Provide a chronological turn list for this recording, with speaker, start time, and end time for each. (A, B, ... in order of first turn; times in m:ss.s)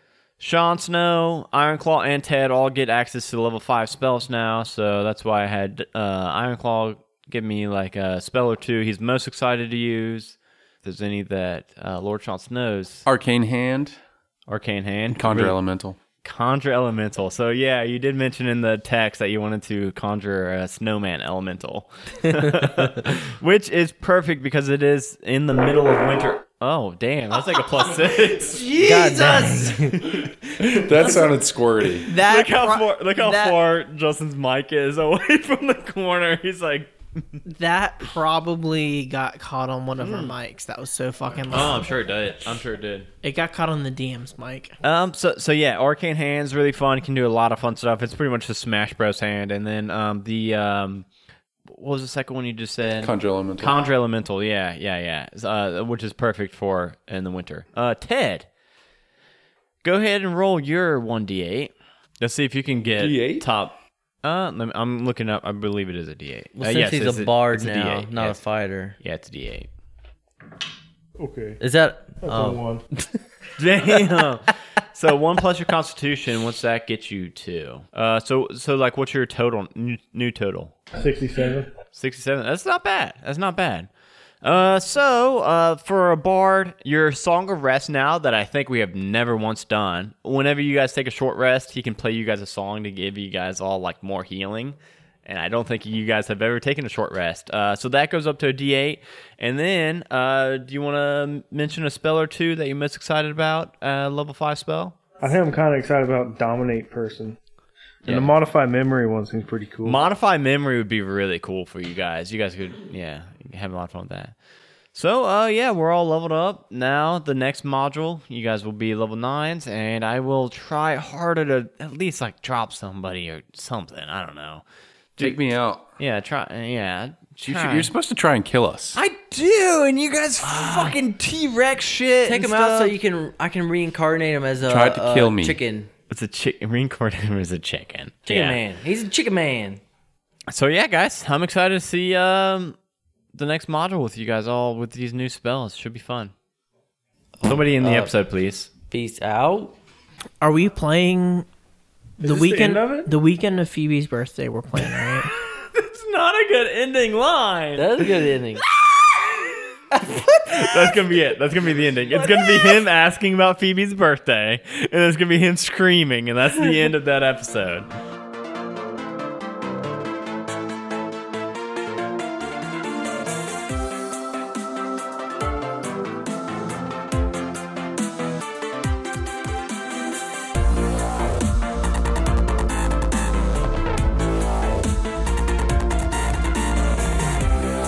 0:00.4-0:13.1 A
0:13.1-0:14.0 B
0:14.5-0:15.6 A
0:15.1-0:16.0 B
0:16.2-0:28.8 A
0:28.4-0:29.9 C
0:28.8-0:30.4 D
0:30.5-0:32.1 B
0:32.0-0:33.6 C
0:32.1-0:37.4 A
0:37.5-0:41.9 C
0:40.0-0:40.4 A
0:41.5-0:43.1 A
0:43.2-0:44.8 C
0:44.8-0:51.1 A
0:51.7-0:58.5 A
0:53.0-0:53.8 B
0:59.8-1:08.4 A
1:03.0-1:03.5 B
1:06.6-1:09.0 D
1:09.0-1:09.7 A
1:11.2-1:11.6 E
1:11.6-1:13.0 D
1:12.2-1:12.8 E
1:13.6-1:20.7 A
1:20.9-1:21.7 E
1:21.9-1:23.9 A
1:24.4-1:45.0 A
1:45.2-1:47.4 E
1:48.0-1:50.0 E
1:48.1-1:48.3 A
1:49.8-1:54.4 A
1:54.9-2:04.6 A
2:05.2-2:07.9 A
2:05.2-2:05.9 B
2:07.5-2:09.0 B
2:08.9-2:13.0 A
2:10.4-2:11.0 D
2:12.2-2:15.9 D
2:14.6-2:15.6 B
2:16.1-2:18.6 A
2:18.2-2:19.8 D
2:20.5-2:22.8 A
2:23.3-2:26.3 A
2:27.4-2:28.1 D
2:27.4-2:28.7 A
2:28.9-2:29.8 D
2:30.4-2:31.5 C
2:32.2-2:33.1 E
2:32.2-2:35.3 C
2:35.6-2:38.1 A
2:37.8-2:38.6 D
2:38.6-2:47.9 A
2:40.0-2:41.0 D
2:42.1-2:42.8 D